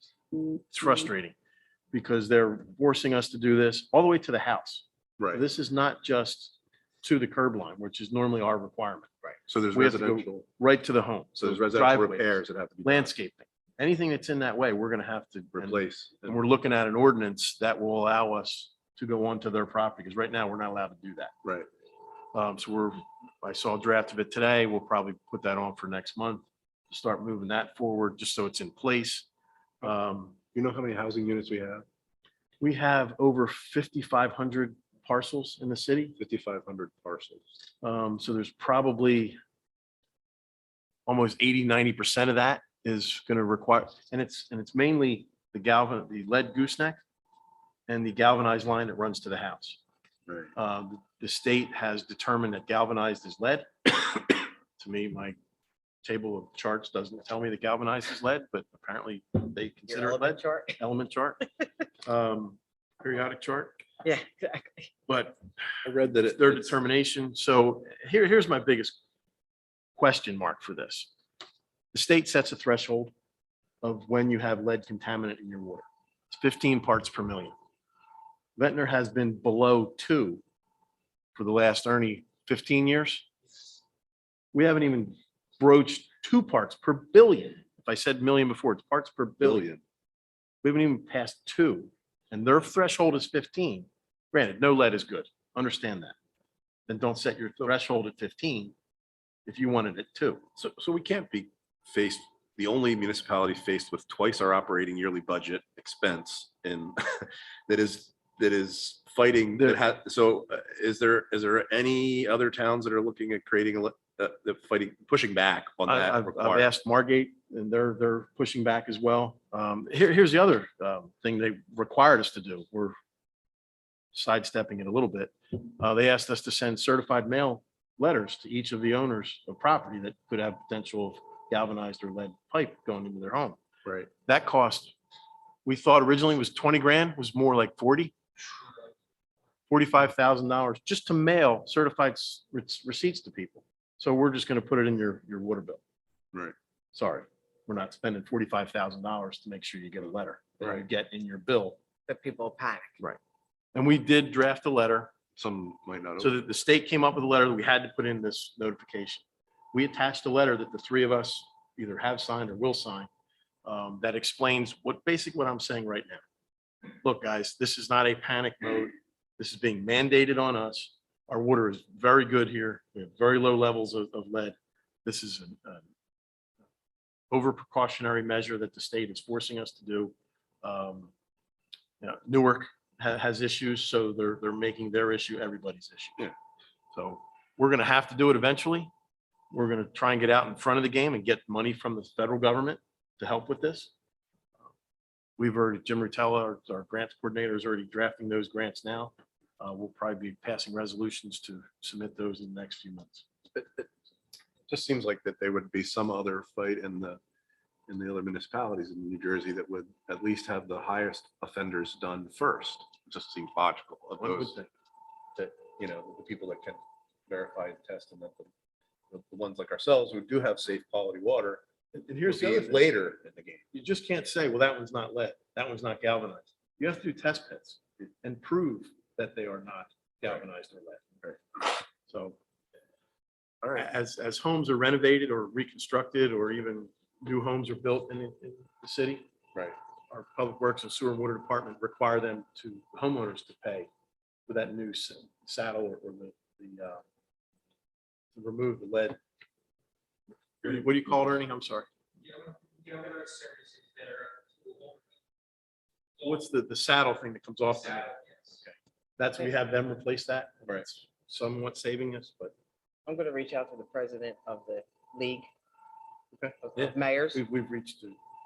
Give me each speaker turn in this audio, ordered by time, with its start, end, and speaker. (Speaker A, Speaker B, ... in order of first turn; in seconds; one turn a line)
Speaker A: 0.4-1.4
Speaker A: 1.9-9.1
Speaker B: 9.5-10.5
Speaker A: 9.7-21.3
Speaker B: 11.4-13.1
Speaker B: 15.6-16.4
Speaker A: 22.3-29.3
Speaker A: 29.8-30.4
Speaker B: 30.5-31.9
Speaker A: 32.6-36.2
Speaker B: 36.2-37.5
Speaker A: 37.8-39.4
Speaker A: 41.1-47.0
Speaker A: 47.9-49.8
Speaker A: 50.5-55.4
Speaker A: 56.0-61.4
Speaker C: 59.9-60.8
Speaker A: 62.0-63.8
Speaker C: 64.0-64.9
Speaker A: 65.1-65.4
Speaker B: 65.8-66.7
Speaker A: 66.2-69.0
Speaker A: 70.0-71.1
Speaker A: 71.9-73.1
Speaker A: 73.8-77.5
Speaker A: 78.6-80.4
Speaker A: 81.3-83.3
Speaker A: 84.5-89.7
Speaker B: 89.4-89.8
Speaker A: 90.6-96.2
Speaker A: 96.9-98.7
Speaker A: 99.5-100.4
Speaker B: 100.6-116.7
Speaker A: 115.9-123.0
Speaker A: 124.1-133.6
Speaker A: 134.3-134.9
Speaker A: 135.7-138.2
Speaker A: 139.7-145.8
Speaker A: 146.9-151.8
Speaker C: 152.1-153.0
Speaker A: 153.7-155.1
Speaker B: 155.4-156.4
Speaker A: 156.2-163.1
Speaker A: 163.7-166.2
Speaker A: 167.0-175.8
Speaker A: 177.3-181.1
Speaker A: 182.0-186.3
Speaker A: 186.9-188.9
Speaker A: 189.5-193.9
Speaker A: 195.4-203.3
Speaker B: 203.6-203.9
Speaker B: 204.7-207.2
Speaker B: 207.9-214.6
Speaker A: 214.2-214.7
Speaker B: 215.4-218.5
Speaker B: 219.1-221.6
Speaker A: 221.9-222.9
Speaker B: 222.3-223.6
Speaker A: 223.7-231.3
Speaker A: 232.1-232.4
Speaker B: 233.6-233.9
Speaker A: 233.8-239.3
Speaker A: 240.1-243.9
Speaker A: 244.5-247.0
Speaker A: 248.3-249.2
Speaker A: 250.6-251.9
Speaker C: 252.9-253.5
Speaker A: 256.2-258.2
Speaker A: 259.2-262.5
Speaker C: 263.1-265.5
Speaker C: 266.6-267.4
Speaker A: 266.8-268.2